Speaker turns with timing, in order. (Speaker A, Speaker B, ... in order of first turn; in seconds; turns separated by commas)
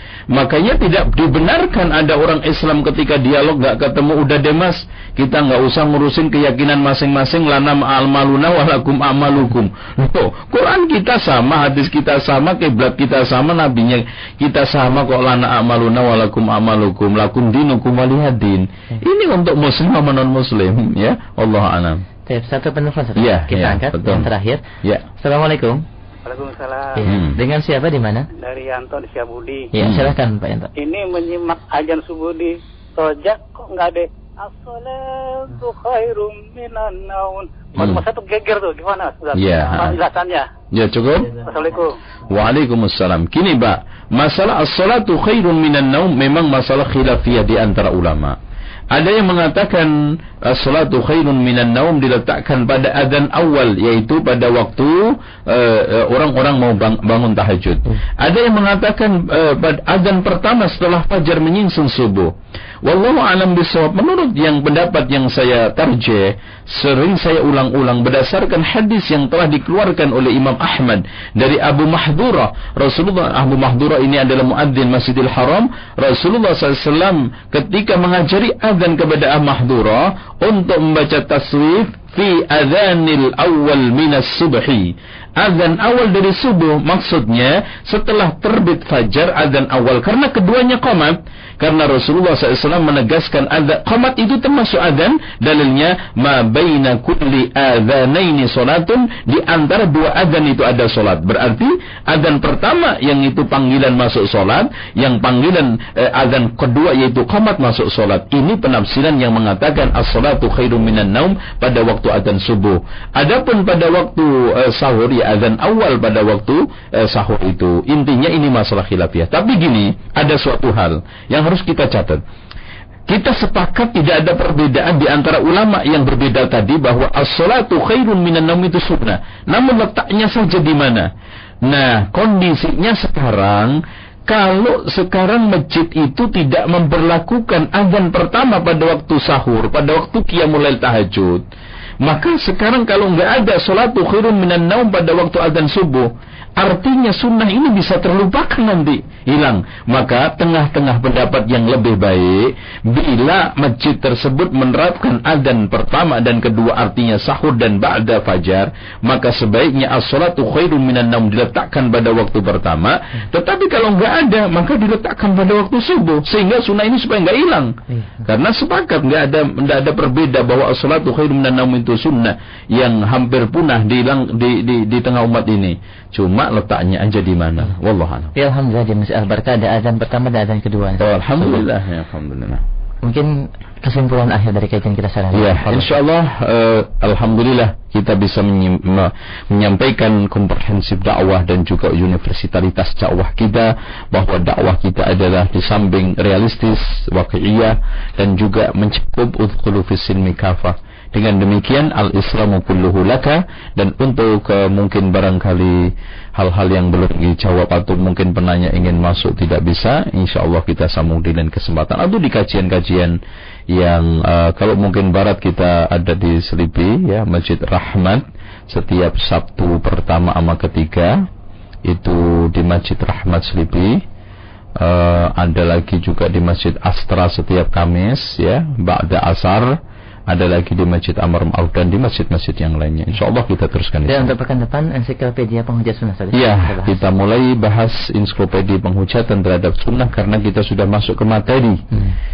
Speaker A: 0.3-22.0, Speaker B: 22.3-24.6, Speaker A: 23.2-24.3, Speaker B: 25.2-25.8, Speaker C: 26.2-27.0, Speaker B: 26.9-28.3, Speaker A: 27.0-27.4, Speaker C: 28.3-29.7, Speaker B: 29.7-30.7, Speaker A: 29.8-30.1, Speaker C: 30.8-40.5, Speaker A: 37.8-38.0, Speaker A: 39.4-40.0, Speaker A: 40.7-41.4, Speaker C: 41.3-42.0, Speaker A: 42.3-48.4, Speaker A: 48.9-62.3, Speaker A: 62.8-122.2, Speaker A: 123.1-131.1, Speaker A: 131.7-133.8, Speaker A: 134.3-141.4, Speaker A: 142.0-178.3, Speaker B: 178.3-181.7, Speaker A: 181.0-182.6, Speaker B: 183.0-185.9, Speaker A: 185.3-213.2, Speaker A: 213.7-221.2, Speaker A: 221.9-224.0, Speaker A: 224.8-229.8, Speaker A: 230.3-234.3, Speaker B: 234.1-237.0, Speaker A: 236.3-241.8